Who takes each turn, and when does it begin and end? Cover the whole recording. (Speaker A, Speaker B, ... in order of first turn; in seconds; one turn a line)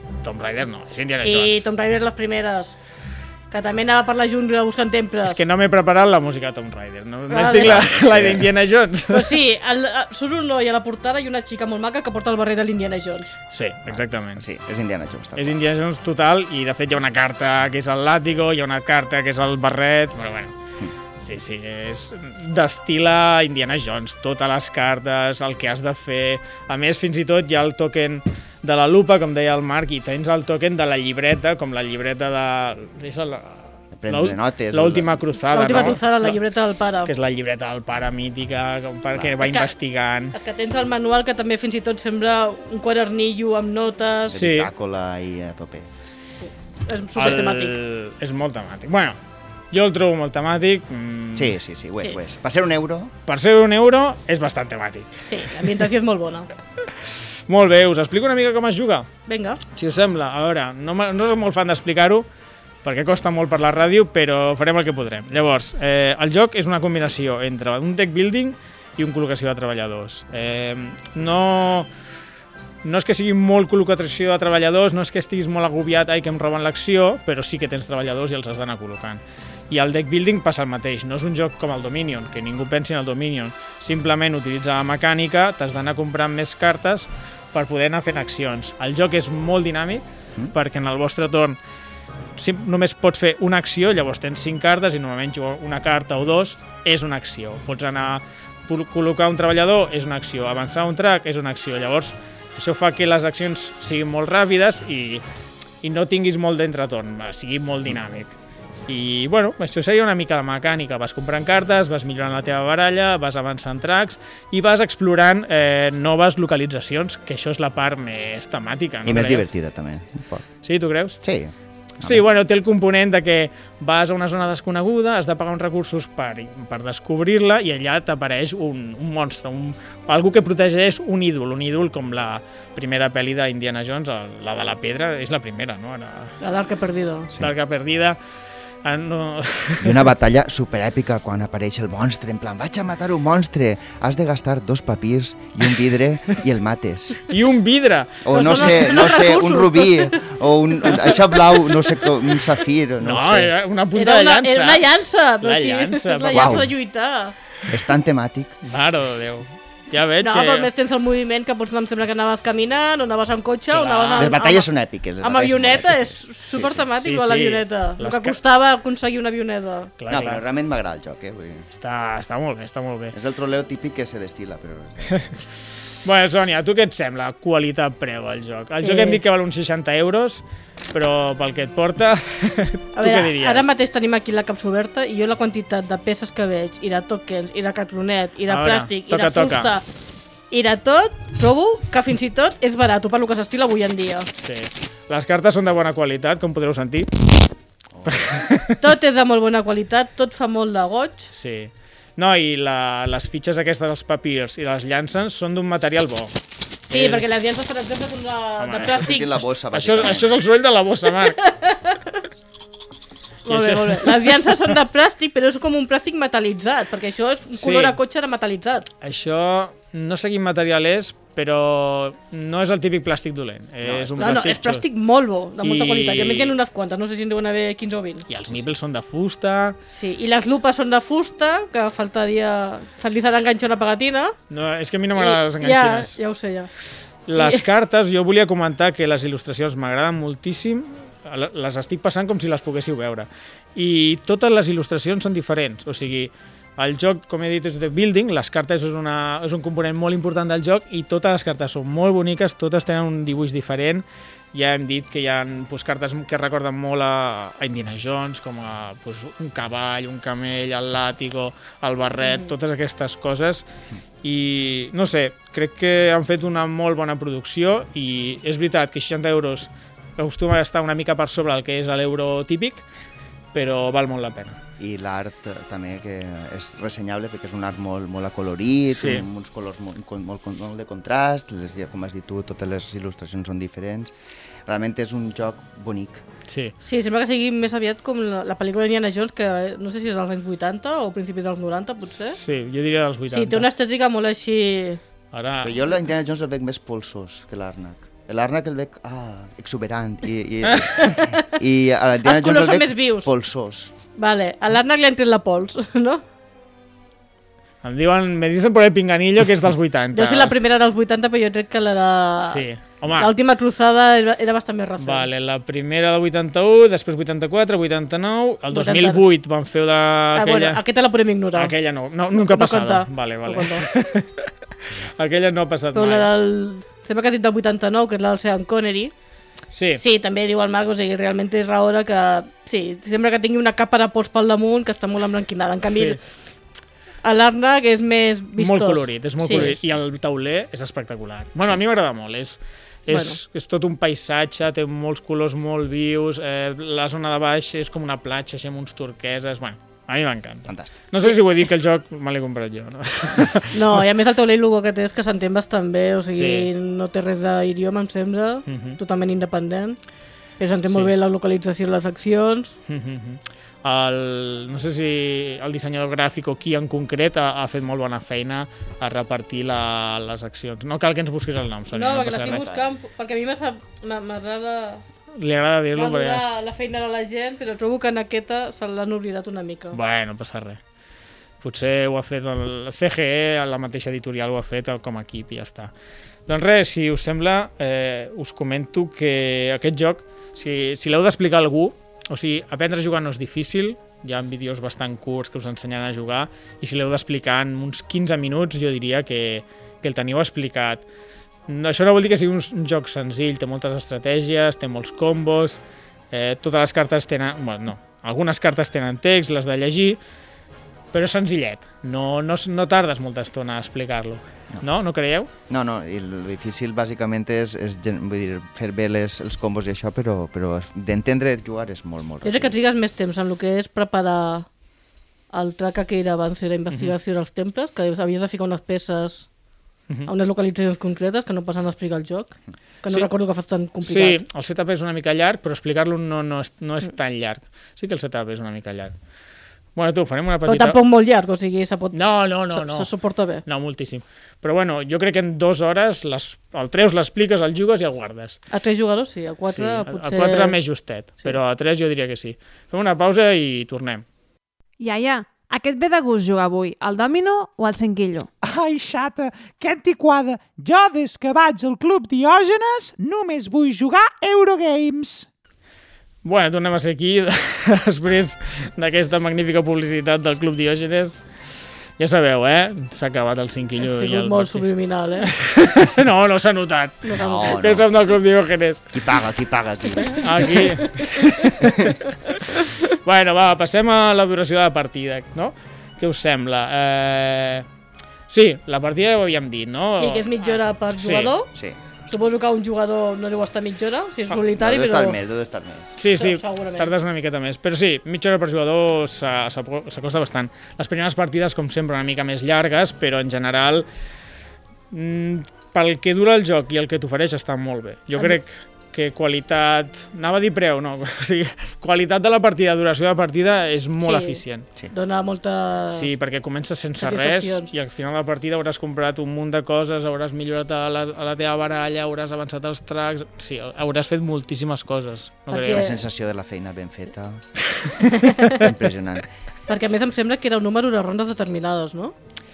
Speaker A: 0.2-1.6
Speaker B: 1.2-2.7
Speaker B: 3.5-5.4
Speaker A: 5.2-9.3
Speaker B: 7.3-7.8
Speaker C: 7.6-8.5
Speaker B: 9.1-13.3
Speaker A: 13.5-14.4
Speaker C: 13.9-15.6
Speaker A: 15.4-20.5
Speaker A: 21.2-36.4
Speaker C: 33.9-35.2
Speaker B: 35.5-37.1
Speaker A: 37.0-40.3
Speaker B: 39.4-39.7
Speaker B: 40.3-44.4
Speaker C: 44.3-45.9
Speaker A: 44.3-44.7
Speaker B: 46.9-47.8
Speaker A: 47.1-49.2
Speaker A: 49.7-51.6
Speaker C: 51.3-53.1
Speaker A: 53.2-55.2
Speaker B: 55.3-56.5
Speaker A: 57.5-59.1
Speaker B: 59.3-59.6
Speaker A: 59.7-62.2
Speaker A: 62.8-71.9
Speaker A: 72.8-91.6
Speaker A: 92.4-105.2
Speaker A: 105.8-108.3
Speaker A: 108.9-119.5
Speaker C: 119.0-120.4
Speaker A: 120.6-121.2
Speaker C: 121.2-122.2
Speaker A: 122.0-136.3
Speaker B: 136.4-137.3
Speaker A: 137.4-138.2
Speaker A: 138.8-140.1
Speaker C: 139.8-147.2
Speaker A: 147.3-148.8
Speaker C: 148.2-153.5
Speaker B: 148.3-150.2
Speaker A: 153.0-154.8
Speaker B: 153.9-157.3
Speaker A: 155.4-156.6
Speaker C: 156.3-156.7
Speaker C: 157.7-158.6
Speaker A: 158.6-160.7
Speaker B: 160.2-164.7
Speaker A: 163.7-164.3
Speaker C: 164.2-166.8
Speaker B: 165.2-169.9
Speaker A: 167.0-168.4
Speaker A: 170.0-170.4
Speaker C: 170.1-171.7
Speaker A: 171.7-173.1
Speaker C: 173.1-175.3
Speaker A: 176.0-183.7
Speaker B: 178.8-179.2
Speaker B: 182.9-189.8
Speaker A: 188.5-189.7
Speaker B: 190.5-194.3
Speaker A: 194.4-197.1
Speaker C: 197.9-198.4
Speaker A: 198.1-198.8
Speaker B: 198.8-201.3
Speaker A: 201.3-206.3
Speaker A: 206.9-207.4
Speaker B: 206.9-209.3
Speaker A: 208.6-209.1
Speaker C: 208.8-210.3
Speaker A: 209.7-211.4
Speaker B: 211.2-212.2
Speaker B: 213.4-218.9
Speaker A: 213.5-214.5
Speaker A: 217.5-218.0
Speaker A: 219.0-224.8
Speaker C: 223.8-224.3
Speaker B: 224.2-228.3
Speaker A: 225.6-226.6
Speaker A: 228.3-229.8
Speaker B: 229.9-234.3
Speaker A: 234.5-236.2
Speaker B: 235.2-236.7
Speaker A: 237.3-263.6
Speaker B: 237.3-237.6
Speaker B: 262.2-262.5
Speaker A: 264.2-272.8
Speaker A: 273.5-274.6
Speaker C: 274.8-284.1
Speaker A: 278.9-279.2
Speaker C: 284.7-286.2
Speaker A: 286.5-286.7
Speaker B: 286.8-292.4
Speaker A: 292.3-293.6
Speaker B: 293.3-295.0
Speaker A: 295.3-295.8
Speaker C: 295.6-303.9
Speaker B: 301.0-301.4
Speaker B: 302.2-303.3
Speaker B: 304.2-306.2
Speaker A: 307.8-310.5
Speaker B: 310.1-315.3
Speaker A: 312.4-313.3
Speaker A: 315.0-320.8
Speaker B: 318.7-319.2
Speaker B: 320.3-321.7
Speaker A: 321.5-326.3
Speaker B: 322.3-323.9
Speaker B: 325.9-329.1
Speaker A: 329.7-330.0
Speaker B: 329.9-336.2
Speaker A: 335.9-336.2
Speaker B: 337.2-339.8
Speaker A: 338.6-354.0
Speaker B: 343.1-343.4
Speaker C: 350.7-351.0
Speaker B: 353.7-360.0
Speaker A: 356.3-356.7
Speaker A: 358.7-359.0
Speaker B: 360.6-362.7
Speaker A: 360.8-361.1
Speaker A: 362.9-372.7
Speaker B: 371.9-375.0
Speaker C: 372.5-372.8
Speaker A: 375.4-376.4
Speaker B: 375.9-380.0
Speaker A: 379.9-380.8
Speaker A: 381.6-385.9
Speaker A: 386.5-401.0
Speaker A: 401.7-410.2
Speaker A: 411.1-415.5
Speaker C: 415.7-422.7
Speaker B: 422.4-424.7
Speaker B: 425.5-429.5
Speaker B: 430.3-434.4
Speaker A: 434.0-439.1
Speaker A: 439.9-441.0
Speaker B: 440.6-442.2
Speaker A: 442.1-443.1
Speaker B: 442.7-443.6
Speaker A: 443.6-448.6
Speaker B: 448.7-450.8
Speaker A: 449.6-454.2
Speaker D: 455.0-458.5
Speaker E: 458.6-465.5
Speaker A: 466.4-471.4
Speaker A: 472.2-474.9
Speaker B: 474.0-475.5
Speaker A: 475.4-479.1
Speaker B: 477.2-477.7
Speaker C: 477.3-478.1
Speaker C: 479.1-480.7
Speaker B: 480.3-481.7
Speaker A: 480.4-487.9
Speaker A: 488.5-491.5
Speaker B: 490.2-491.7
Speaker C: 491.7-492.0
Speaker B: 492.3-495.4
Speaker C: 494.7-496.2
Speaker A: 496.2-504.1
Speaker B: 496.3-497.1
Speaker A: 505.1-514.9
Speaker B: 514.2-514.6
Speaker B: 515.1-516.3
Speaker A: 516.1-526.1
Speaker B: 517.2-517.9
Speaker B: 525.7-526.2
Speaker C: 525.9-527.6
Speaker B: 528.2-528.8
Speaker C: 528.7-529.5
Speaker B: 529.9-532.3